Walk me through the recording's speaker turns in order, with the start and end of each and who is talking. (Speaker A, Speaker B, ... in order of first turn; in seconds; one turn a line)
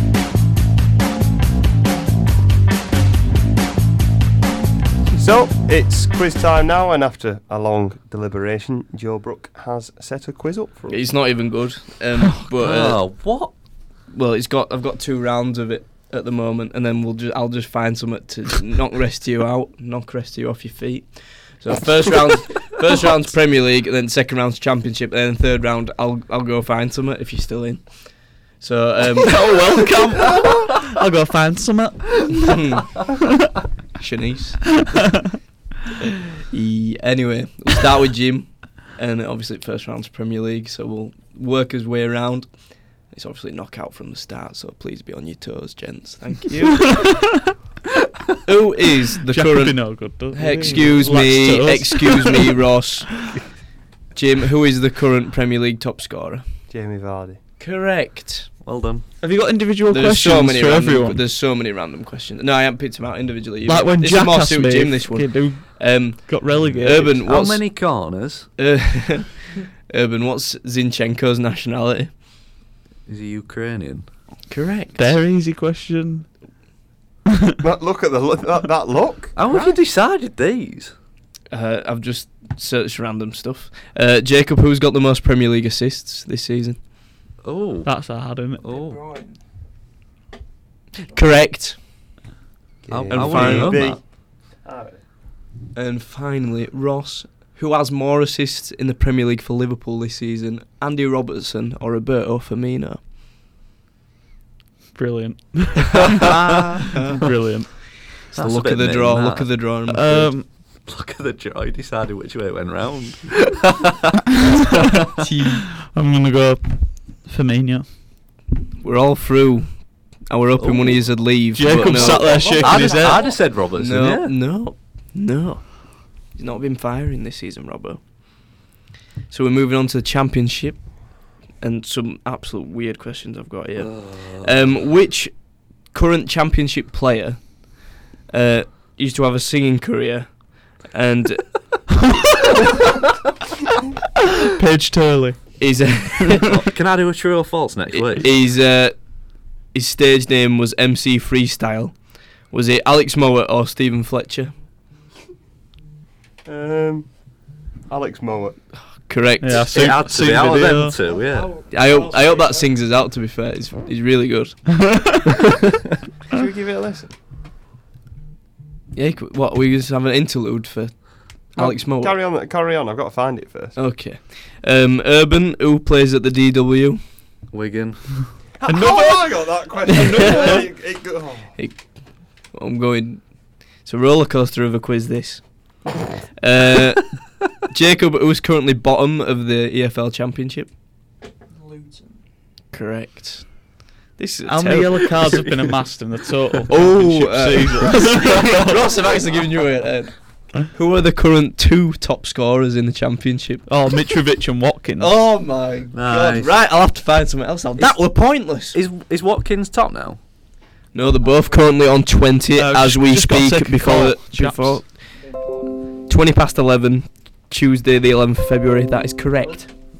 Speaker A: 5.2-11.1
Speaker B: 10.9-13.5
Speaker C: 12.6-13.5
Speaker B: 14.1-29.8
Speaker D: 29.2-32.6
Speaker B: 32.3-33.0
Speaker B: 34.0-35.0
Speaker D: 34.8-35.3
Speaker B: 36.5-47.4
Speaker D: 46.6-47.5
Speaker B: 48.4-53.2
Speaker D: 49.3-52.5
Speaker B: 54.1-56.5
Speaker A: 56.7-57.4
Speaker B: 57.6-58.5
Speaker C: 58.6-59.0
Speaker D: 59.2-61.2
Speaker B: 59.9-68.0
Speaker D: 63.7-67.2
Speaker C: 66.6-68.5
Speaker B: 68.6-72.2
Speaker C: 73.1-74.1
Speaker B: 74.5-75.2
Speaker D: 74.9-76.3
Speaker A: 77.6-79.3
Speaker C: 79.3-80.9
Speaker B: 79.5-79.8
Speaker B: 81.5-86.8
Speaker C: 87.4-89.0
Speaker D: 87.8-88.7
Speaker E: 88.6-89.4
Speaker E: 91.0-91.4
Speaker B: 91.1-91.9
Speaker A: 92.8-95.0
Speaker C: 92.9-94.0
Speaker B: 93.1-94.0
Speaker B: 95.7-103.0
Speaker D: 104.9-108.1
Speaker B: 105.9-110.3
Speaker C: 108.3-109.6
Speaker D: 109.8-110.5
Speaker C: 110.5-113.9
Speaker B: 115.2-115.6
Speaker D: 115.8-118.0
Speaker B: 118.8-122.8
Speaker C: 120.6-124.4
Speaker D: 121.4-123.4
Speaker E: 121.8-123.5
Speaker B: 123.4-128.7
Speaker B: 129.3-141.8
Speaker C: 133.8-134.8
Speaker D: 144.6-146.1
Speaker B: 145.6-146.4
Speaker C: 146.4-148.3
Speaker B: 147.9-154.5
Speaker A: 156.4-158.7
Speaker B: 158.8-160.2
Speaker D: 159.4-161.0
Speaker C: 159.6-161.6
Speaker E: 160.8-162.8
Speaker B: 161.7-165.0
Speaker D: 164.8-165.4
Speaker A: 166.3-167.1
Speaker B: 168.9-172.2
Speaker A: 171.8-173.8
Speaker B: 173.7-177.0
Speaker C: 177.5-178.2
Speaker A: 178.6-181.6
Speaker D: 178.6-179.6
Speaker B: 179.8-180.7
Speaker B: 181.6-190.7
Speaker E: 191.5-192.2
Speaker B: 192.7-195.8
Speaker D: 194.4-198.9
Speaker B: 196.7-204.1
Speaker D: 203.7-205.5
Speaker B: 205.0-208.8
Speaker C: 205.9-206.5
Speaker C: 207.8-210.2
Speaker B: 210.9-219.7
Speaker E: 211.2-211.8
Speaker D: 212.5-214.8
Speaker E: 215.1-215.7